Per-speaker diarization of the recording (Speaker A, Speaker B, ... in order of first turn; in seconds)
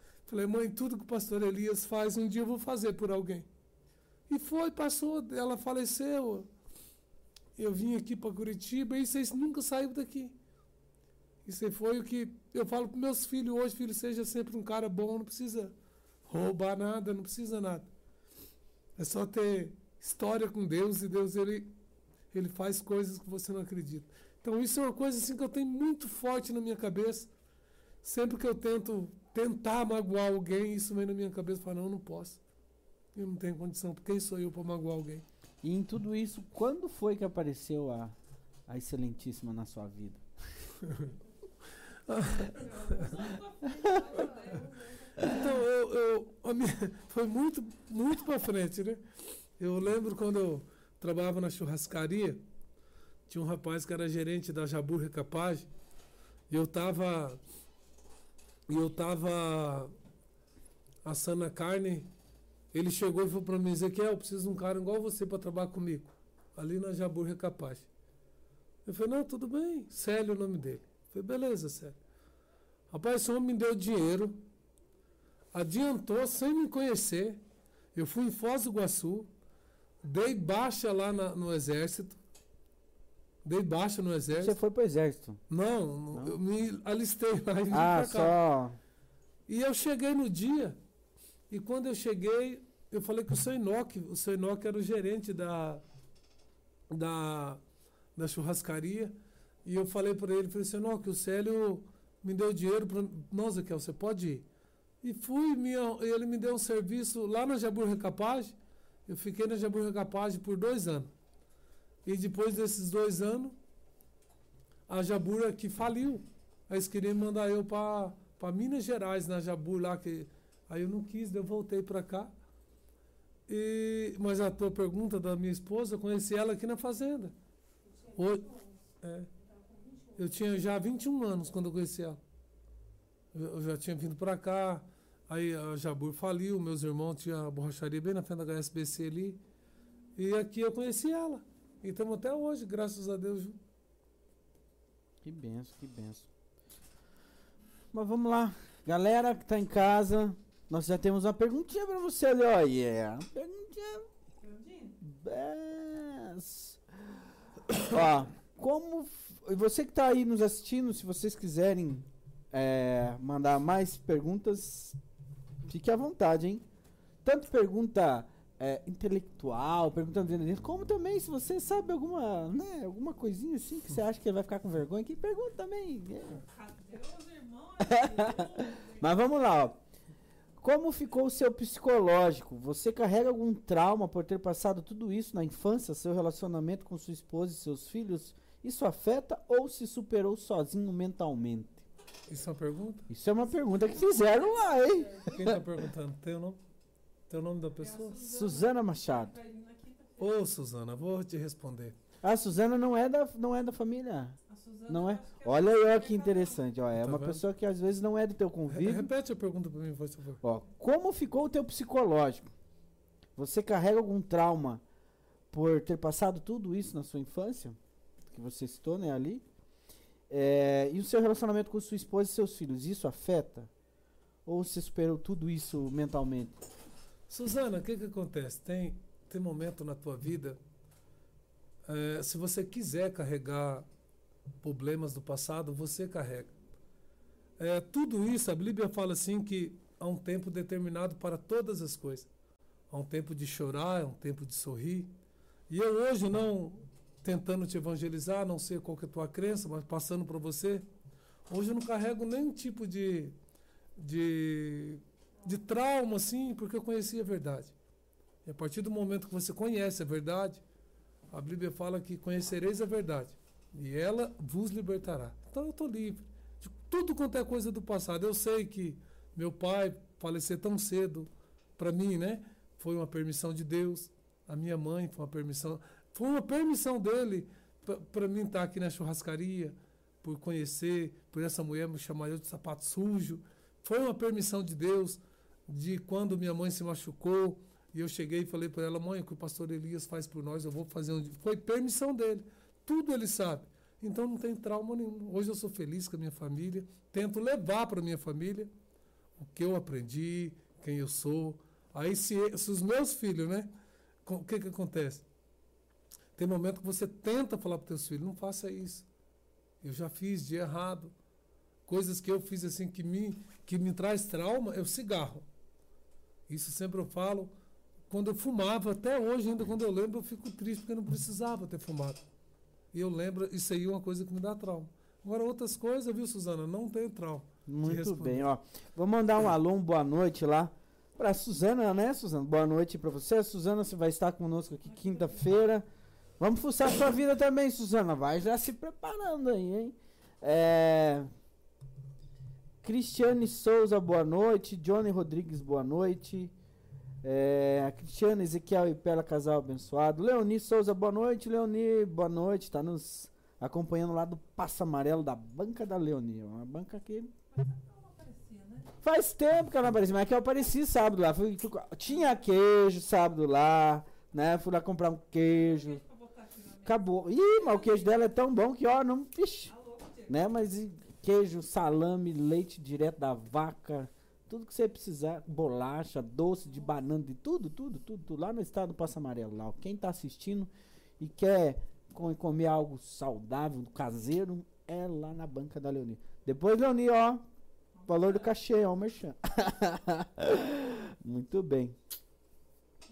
Speaker A: 0.3-3.5, 4.3-6.5, 7.6-10.3, 11.4-15.7, 16.3-17.9, 19.0-21.7, 22.3-27.3, 28.0-32.4, 33.1-35.2, 42.1-43.3, 45.2-49.0, 49.6-52.4, 53.3-55.7, 56.5-57.4, 58.7-59.9, 61.0-62.1, 62.7-67.9, 68.9-72.0, 72.9-74.4, 75.5-77.4, 78.0-79.3, 80.0-82.2, 83.4-84.6, 85.5-88.4, 89.5-90.8, 91.5-95.8, 96.9-97.6, 98.2-104.5, 105.0-108.6, 109.1-111.1, 112.0-113.6, 114.9-122.3, 123.5-127.3, 128.2-129.3, 130.2-132.2, 133.3-139.4, 140.2-143.6, 192.3-193.1, 195.3-196.6, 197.3-198.2, 200.2-202.0, 207.0-207.4, 208.7-210.4, 227.3-230.6, 231.9-233.9, 234.6-236.5, 237.6-242.3, 242.9-245.1, 245.7-250.8, 251.5-253.3, 254.0-257.7, 258.4-260.6, 261.3-298.7, 299.4-303.7, 304.3-305.2, 306.4-309.1, 309.8-311.1, 311.9-315.4, 316.5-317.5, 318.1-322.2, 322.9-328.5
Speaker B: 35.6-38.1, 38.7-40.2, 84.4-85.4, 87.7-88.8, 145.2-146.3, 147.9-154.1, 155.0-156.8, 157.7-165.0, 165.7-166.6, 167.2-176.4, 177.8-179.8, 180.6-191.8, 193.1-195.6, 198.2-199.3, 202.2-209.1, 210.4-212.5, 213.4-214.8, 215.5-217.8, 218.3-219.4, 220.3-223.7, 224.5-226.6, 327.7-335.9, 336.4-341.3, 342.8-346.5, 347.2-357.3, 359.0-366.0, 366.9-369.7, 370.3-387.4, 388.0-392.0
Speaker C: 42.5-45.3, 127.9-128.8, 129.4-130.3, 154.4-155.0, 176.4-179.2, 197.8-200.3, 204.5-206.6, 334.9-335.5, 357.5-358.9, 365.4-368.4, 369.7-370.4